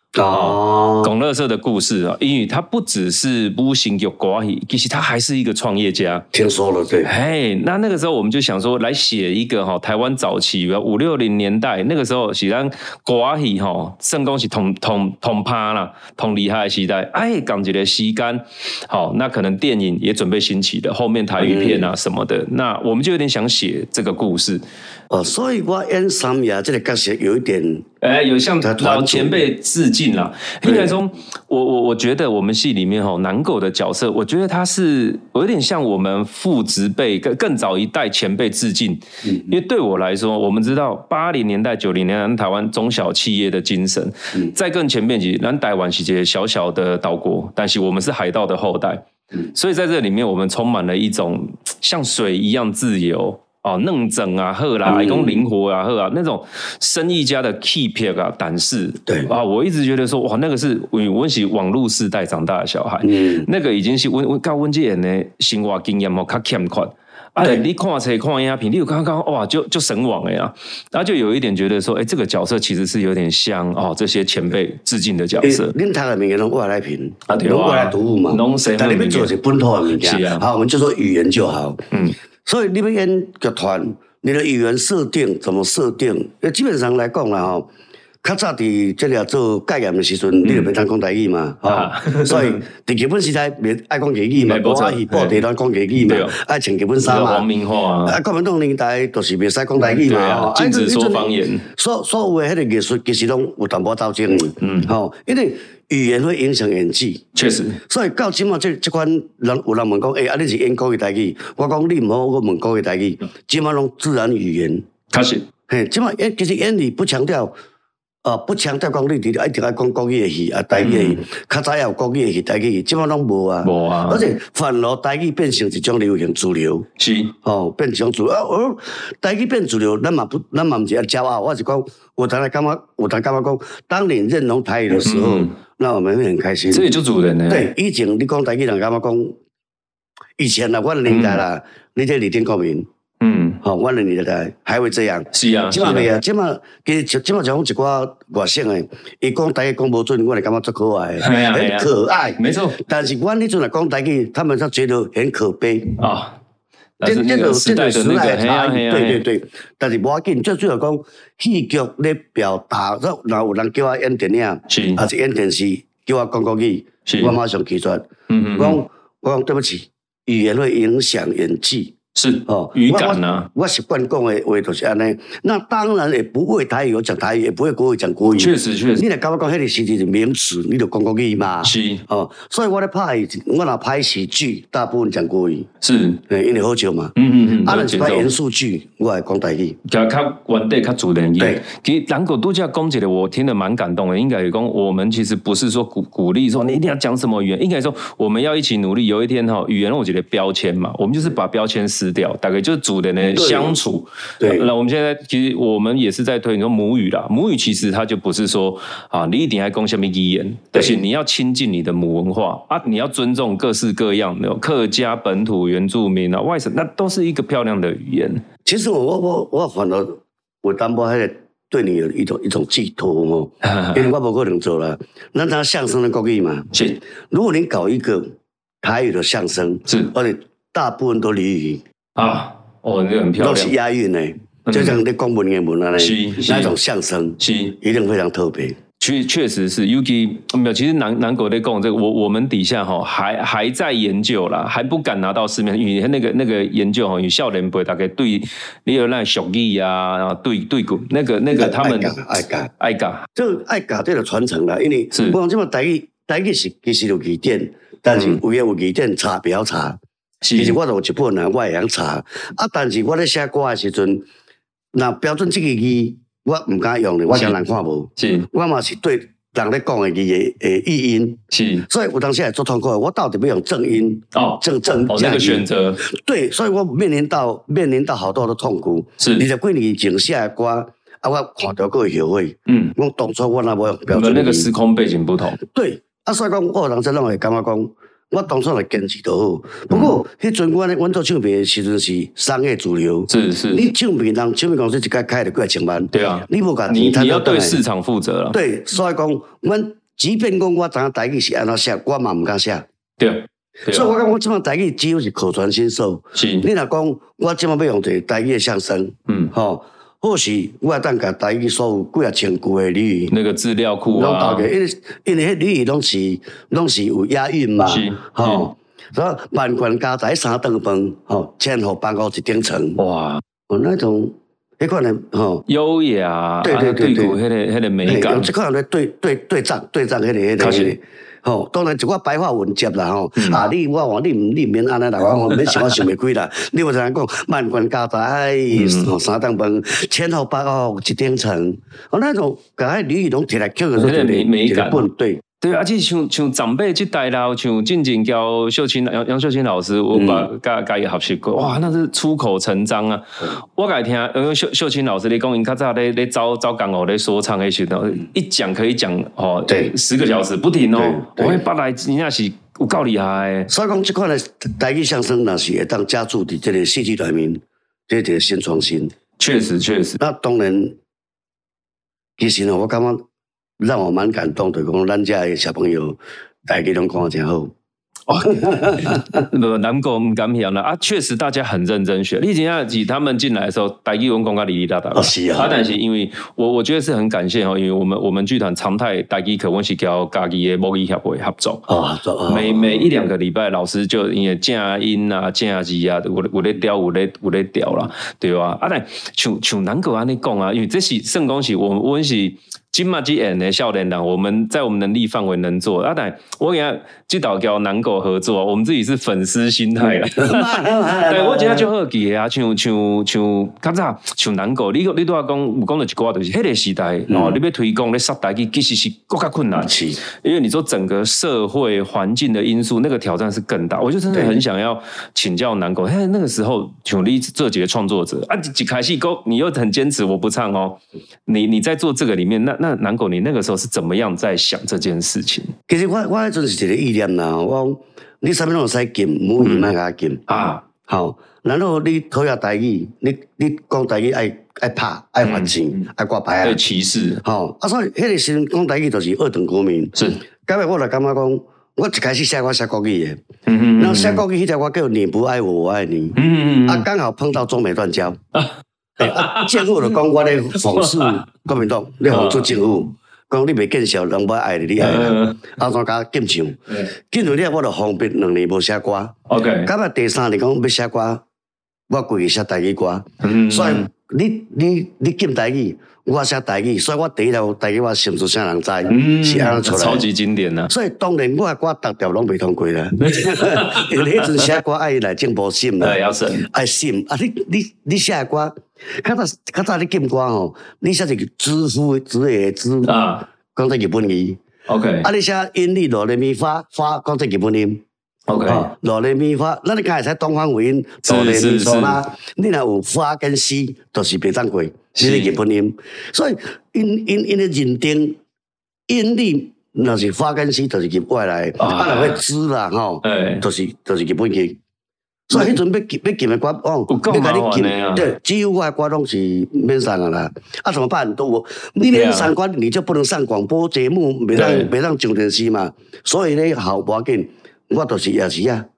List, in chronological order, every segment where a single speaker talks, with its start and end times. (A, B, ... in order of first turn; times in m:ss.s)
0:00.1-0:01.1 A
0:00.3-0:06.2 B
0:06.3-0:07.1 A
0:07.0-0:24.6 B
0:21.4-0:21.9 A
0:25.1-0:27.8 A
0:28.0-1:15.7 B
0:28.6-0:29.4 A
0:30.6-0:30.9 A
0:39.2-0:39.5 A
0:54.8-0:55.4 A
1:03.0-1:03.5 A
1:15.4-1:21.8 A
1:17.3-1:19.3 B
1:20.0-1:20.4 B
1:21.9-1:22.2 B
1:22.4-1:27.7 A
1:28.2-1:37.5 A
1:31.7-1:32.6 B
1:34.4-1:35.4 B
1:36.0-1:36.3 B
1:37.0-1:38.2 B
1:38.0-1:47.2 A
1:39.8-1:41.6 B
1:44.6-1:44.9 B
1:47.3-1:47.8 B
1:47.9-1:54.8 A
1:55.1-1:55.4 B
1:55.7-1:57.5 A
1:58.2-2:06.8 A
2:00.8-2:01.2 B
2:03.6-2:04.2 B
2:07.0-2:07.3 B
2:07.4-2:16.9 A
2:15.0-2:15.6 B
2:16.7-2:17.7 B
2:17.5-2:19.4 A
2:20.4-2:22.9 A
2:21.1-2:21.4 B
2:23.2-2:23.6 B
2:23.6-2:36.0 A
2:25.3-2:26.1 B
2:31.2-2:32.8 B
2:36.0-2:36.4 B
2:37.0-2:39.2 B
2:37.0-2:51.9 A
2:44.7-2:45.0 B
2:47.0-2:47.4 B
2:48.3-2:48.8 B
2:52.1-2:53.5 B
2:52.5-3:05.7 A
2:58.4-2:59.0 B
3:01.6-3:02.0 B
3:05.8-3:06.2 B
3:06.3-3:09.8 A
3:07.1-3:08.3 B
3:09.9-3:38.4 B
3:23.2-3:23.8 A
3:24.4-3:24.7 A
3:38.6-3:46.7 A
3:43.6-3:44.0 B
3:46.7-3:47.0 B
3:47.2-3:51.8 A
3:49.9-3:50.1 B
3:52.2-3:53.7 B
3:53.4-3:58.8 A
3:54.6-3:55.0 B
3:56.0-3:56.7 B
3:57.4-3:57.7 B
3:59.0-4:12.2 B
4:11.6-4:12.7 A
4:12.8-4:13.3 B
4:13.4-4:20.0 A
4:15.1-4:15.4 B
4:18.1-4:18.4 B
4:20.4-4:20.8 B
4:20.6-4:24.2 A
4:24.9-4:44.7 A
4:27.3-4:27.6 B
4:28.2-4:28.5 B
4:31.5-4:31.9 B
4:34.3-4:36.0 B
4:39.2-4:39.5 B
4:42.7-4:42.9 B
4:44.1-4:45.6 B
4:45.6-4:57.8 A
4:49.9-4:50.2 B
4:53.3-4:53.8 B
4:56.1-4:58.6 B
4:58.5-5:02.8 A
5:03.2-5:04.1 B
5:03.9-5:13.3 A
5:06.3-5:06.6 B
5:13.3-5:14.7 B
5:14.1-5:23.0 A
5:17.8-5:18.7 B
5:23.0-5:23.4 B
5:23.7-5:25.6 A
5:25.7-5:28.5 B
5:26.6-5:27.4 A
5:28.0-5:45.4 A
5:30.6-5:30.9 B
5:33.4-5:33.6 B
5:38.7-5:39.1 B
5:44.0-5:45.1 B
5:45.6-6:03.7 B
5:50.1-5:50.5 A
5:59.7-5:59.9 A
6:01.0-6:01.6 A
6:03.7-6:09.1 A
6:09.4-6:10.2 B
6:10.2-6:11.0 A
6:12.4-6:13.2 A
6:13.8-6:17.7 A
6:18.3-6:31.8 B
6:18.4-6:19.4 A
6:25.1-6:25.7 A
6:31.9-6:33.1 A
6:32.5-7:15.7 B
6:50.0-6:51.9 A
6:57.3-6:57.6 A
6:59.8-7:00.2 A
7:15.9-7:20.4 A
7:19.6-7:19.9 B
7:20.5-7:20.8 B
7:21.1-7:26.8 A
7:25.4-7:25.7 B
7:26.6-7:27.4 B
7:27.4-7:33.4 A
7:30.2-7:30.4 B
7:33.7-7:34.4 B
7:34.0-7:38.4 A
7:36.3-7:37.0 B
7:38.5-7:39.9 B
7:39.2-7:51.4 A
7:40.9-7:41.4 B
7:42.3-7:42.7 B
7:45.0-7:45.6 B
7:49.5-7:49.9 B
7:52.1-8:00.2 A
7:53.4-7:54.1 B
7:59.1-8:00.9 B
8:00.9-8:13.1 A
8:03.2-8:04.6 B
8:06.0-8:06.6 B
8:13.0-8:13.4 B
8:13.6-8:14.6 A
8:14.9-8:15.3 B
8:15.2-8:18.0 A
8:18.5-8:18.9 B
8:18.7-8:28.4 A
8:21.2-8:22.2 B
8:25.2-8:25.5 B
8:29.1-8:34.8 A
8:31.8-8:32.4 B
8:33.2-8:33.6 B
8:35.5-8:48.9 A
8:37.1-8:38.3 B
8:42.1-8:42.5 B
8:44.5-8:44.9 B